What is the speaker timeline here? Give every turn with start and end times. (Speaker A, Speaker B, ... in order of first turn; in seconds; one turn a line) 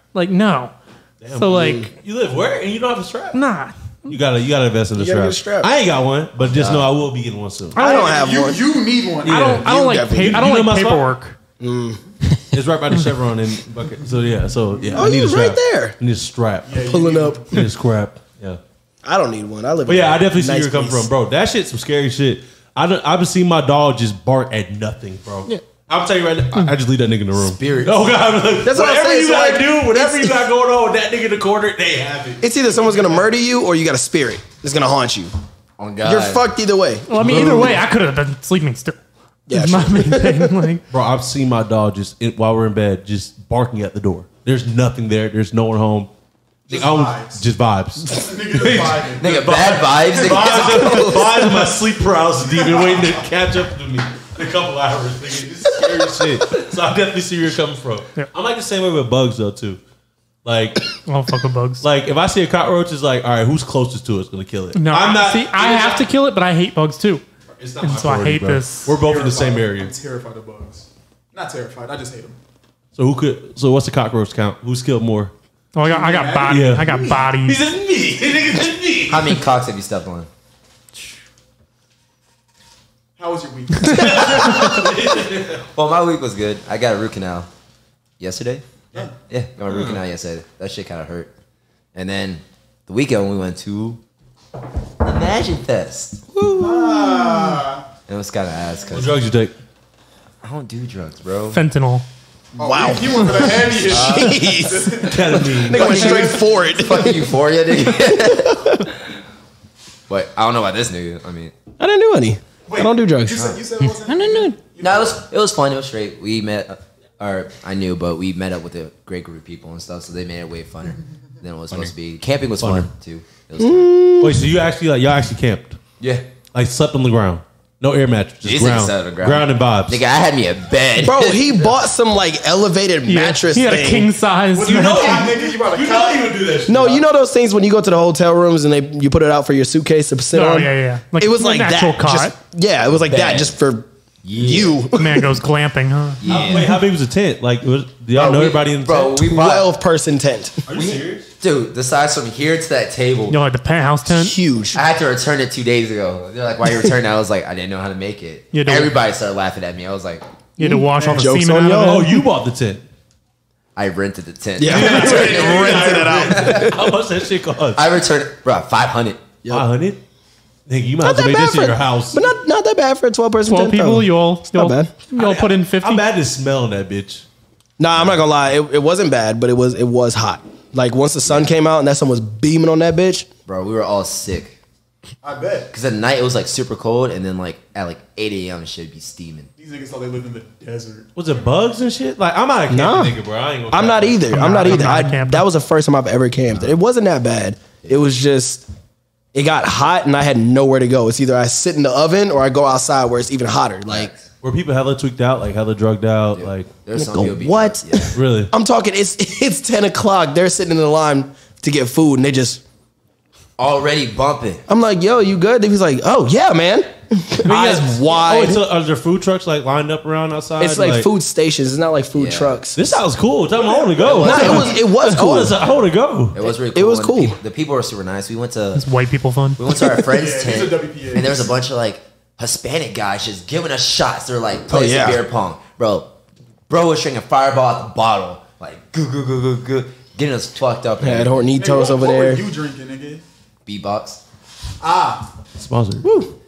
Speaker A: 0.1-0.7
Speaker B: 1.2-3.4
Speaker A: 1.3-1.9
Speaker C: 1.5-1.9
Speaker A: 3.3-4.2
Speaker B: 4.1-7.8
Speaker C: 5.0-5.7
Speaker D: 6.4-6.9
Speaker C: 7.8-8.7
Speaker E: 7.8-9.7
Speaker A: 7.8-8.1
Speaker B: 9.3-9.6
Speaker A: 9.3-11.3
Speaker C: 9.4-10.5
Speaker B: 10.2-11.1
Speaker C: 11.6-12.0
Speaker B: 12.5-16.8
Speaker E: 14.7-15.1
Speaker C: 14.9-15.9
Speaker E: 16.6-17.6
Speaker C: 16.8-17.6
Speaker B: 17.5-18.6
Speaker C: 19.0-21.1
Speaker B: 19.9-33.2
Speaker D: 27.5-28.2
Speaker C: 28.6-30.4
Speaker C: 32.4-35.3
Speaker D: 35.8-36.5
Speaker C: 36.0-37.8
Speaker A: 37.1-39.0
Speaker C: 39.5-40.7
Speaker A: 39.5-40.8
Speaker B: 40.9-46.1
Speaker E: 46.7-47.4
Speaker B: 46.7-59.8
Speaker E: 48.1-49.3
Speaker D: 49.2-51.5
Speaker E: 52.5-53.1
Speaker B: 60.4-60.9
Speaker A: 61.0-61.8
Speaker B: 61.8-66.1
Speaker A: 64.8-67.2
Speaker B: 67.6-69.9
Speaker A: 67.8-68.9
Speaker E: 68.9-72.4
Speaker B: 73.0-75.3
Speaker A: 75.7-77.6
Speaker E: 75.8-76.8
Speaker B: 76.5-79.4
Speaker D: 79.1-80.3
Speaker E: 83.2-84.8
Speaker B: 83.8-85.6
Speaker D: 85.7-87.5
Speaker D: 88.2-91.3
Speaker B: 89.7-90.0
Speaker D: 91.9-94.0
Speaker D: 95.0-96.2
Speaker C: 96.3-97.6
Speaker E: 96.6-97.8
Speaker D: 98.1-99.1
Speaker B: 98.9-99.5
Speaker D: 100.4-101.6
Speaker A: 101.5-102.0
Speaker E: 102.5-106.8
Speaker C: 102.6-108.8
Speaker D: 103.9-104.5
Speaker B: 105.1-106.1
Speaker D: 106.0-108.8
Speaker D: 110.1-111.5
Speaker C: 111.8-113.5
Speaker E: 112.7-115.2
Speaker C: 114.1-114.5
Speaker D: 114.8-123.9
Speaker B: 122.6-122.9
Speaker C: 123.6-124.4
Speaker B: 124.2-125.8
Speaker D: 126.0-126.2
Speaker B: 126.5-130.0
Speaker D: 128.4-131.7
Speaker C: 131.0-134.1
Speaker A: 133.1-135.3
Speaker E: 134.5-136.3
Speaker B: 134.6-137.0
Speaker C: 136.7-145.3
Speaker A: 140.3-142.3
Speaker D: 143.0-143.5
Speaker D: 144.2-144.8
Speaker A: 144.9-146.2
Speaker D: 146.2-146.8
Speaker B: 146.2-149.2
Speaker D: 148.1-149.7
Speaker C: 149.2-150.6
Speaker B: 150.7-151.3
Speaker D: 150.7-153.4
Speaker A: 153.3-154.4
Speaker C: 154.0-154.8
Speaker D: 154.7-160.2
Speaker A: 158.5-158.9
Speaker A: 160.6-162.2
Speaker C: 160.6-162.2
Speaker E: 161.0-161.3
Speaker B: 161.8-162.8
Speaker D: 163.8-165.7
Speaker C: 164.6-166.8
Speaker B: 164.7-167.9
Speaker E: 164.7-166.3
Speaker D: 166.3-166.7
Speaker D: 167.7-169.2
Speaker C: 169.4-169.7
Speaker B: 169.5-170.0
Speaker B: 170.7-172.3
Speaker C: 171.0-174.9
Speaker A: 173.4-176.0
Speaker B: 175.1-177.2
Speaker C: 177.8-183.3
Speaker D: 177.9-178.2
Speaker D: 181.2-181.5
Speaker D: 183.5-184.5
Speaker E: 185.2-185.7
Speaker D: 185.7-189.5
Speaker E: 189.6-191.4
Speaker B: 191.2-195.1
Speaker C: 192.7-193.2
Speaker C: 193.7-198.7
Speaker A: 194.3-195.4
Speaker C: 199.3-204.1
Speaker D: 203.9-204.3
Speaker B: 204.4-206.7
Speaker D: 206.3-208.2
Speaker C: 207.0-212.6
Speaker B: 208.1-208.5
Speaker D: 213.6-214.6
Speaker C: 214.7-218.6
Speaker B: 217.4-221.1
Speaker C: 220.6-223.0
Speaker D: 222.1-222.6
Speaker B: 222.8-226.4
Speaker E: 223.5-224.5
Speaker D: 224.0-224.9
Speaker C: 224.2-225.6
Speaker D: 225.6-228.8
Speaker C: 226.4-227.4
Speaker A: 228.8-229.6
Speaker D: 229.6-236.1
Speaker E: 230.0-231.6
Speaker C: 234.7-235.2
Speaker D: 236.7-241.5
Speaker C: 241.0-242.4
Speaker E: 241.5-243.2
Speaker D: 243.7-244.2
Speaker E: 244.8-245.3
Speaker B: 245.6-246.0
Speaker C: 246.0-246.3